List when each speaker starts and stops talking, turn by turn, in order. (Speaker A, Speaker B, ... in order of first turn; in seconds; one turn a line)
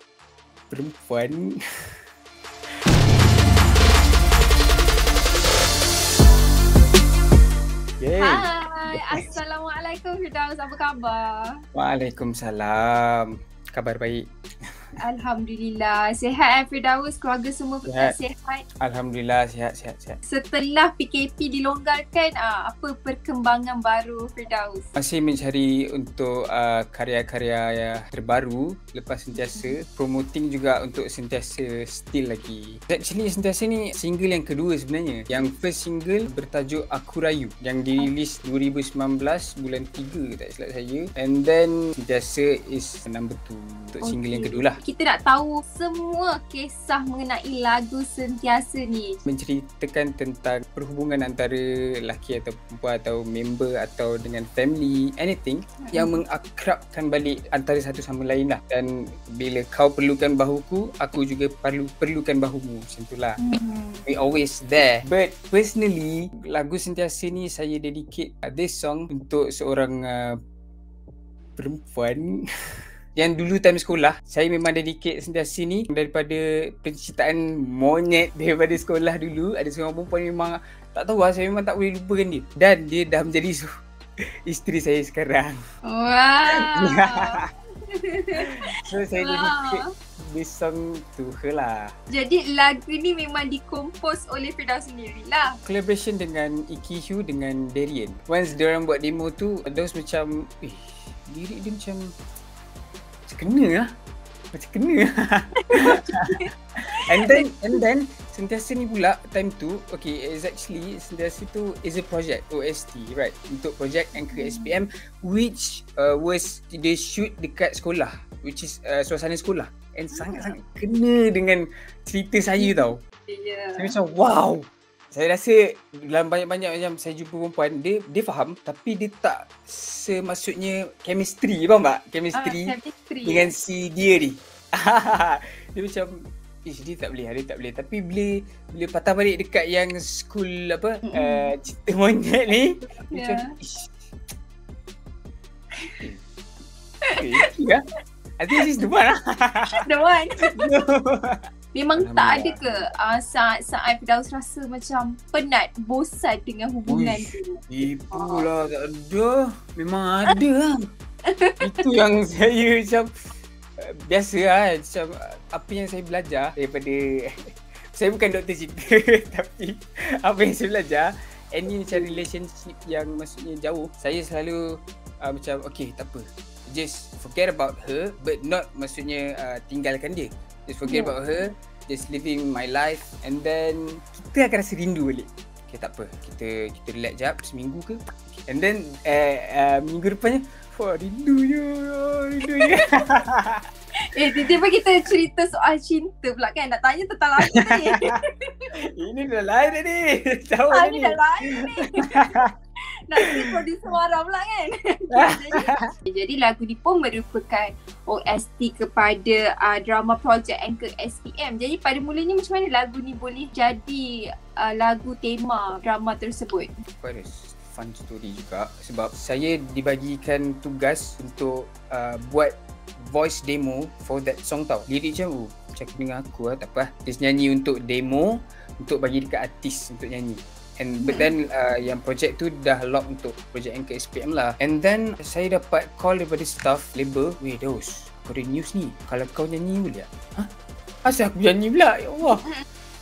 Speaker A: 0.7-1.5
Speaker A: 8.0-9.3
Speaker B: 8.2-11.5
Speaker A: 11.7-14.2
Speaker B: 15.0-18.6
Speaker A: 17.9-18.1
Speaker A: 18.8-20.2
Speaker B: 20.3-24.9
Speaker A: 25.0-44.8
Speaker B: 29.4-29.7
Speaker B: 44.0-49.2
Speaker A: 49.3-63.4
Speaker B: 55.8-56.2
Speaker B: 63.4-64.0
Speaker A: 64.1-70.4
Speaker A: 71.6-72.3
Speaker A: 73.2-83.7
Speaker A: 84.5-85.6
Speaker B: 85.9-89.9
Speaker A: 86.5-87.4
Speaker A: 88.4-91.9
Speaker B: 92.1-95.5
Speaker A: 95.7-102.1
Speaker A: 103.3-103.9
Speaker A: 104.5-106.5
Speaker B: 105.6-106.5
Speaker A: 107.1-123.0
Speaker B: 107.2-107.5
Speaker B: 114.2-114.8
Speaker B: 120.1-120.5
Speaker B: 122.6-123.9
Speaker A: 123.8-132.7
Speaker B: 132.3-133.5
Speaker A: 133.2-136.1
Speaker A: 136.7-144.1
Speaker B: 141.1-141.5
Speaker B: 143.1-143.5
Speaker A: 145.8-146.2
Speaker A: 147.2-147.8
Speaker A: 148.4-149.8
Speaker B: 149.8-150.7
Speaker A: 150.4-151.4
Speaker B: 151.7-158.5
Speaker A: 152.0-152.9
Speaker A: 156.9-160.8
Speaker B: 161.3-161.8
Speaker A: 161.6-163.1
Speaker A: 164.1-167.4
Speaker A: 167.9-193.7
Speaker B: 171.9-172.2
Speaker B: 180.8-181.2
Speaker B: 192.6-192.9
Speaker B: 194.1-198.7
Speaker A: 197.5-198.1
Speaker A: 198.8-202.5
Speaker B: 200.7-202.3
Speaker B: 203.1-216.8
Speaker A: 203.2-203.6
Speaker A: 205.1-205.9
Speaker A: 217.0-240.5
Speaker B: 231.0-231.3
Speaker A: 241.1-242.4
Speaker B: 242.3-242.6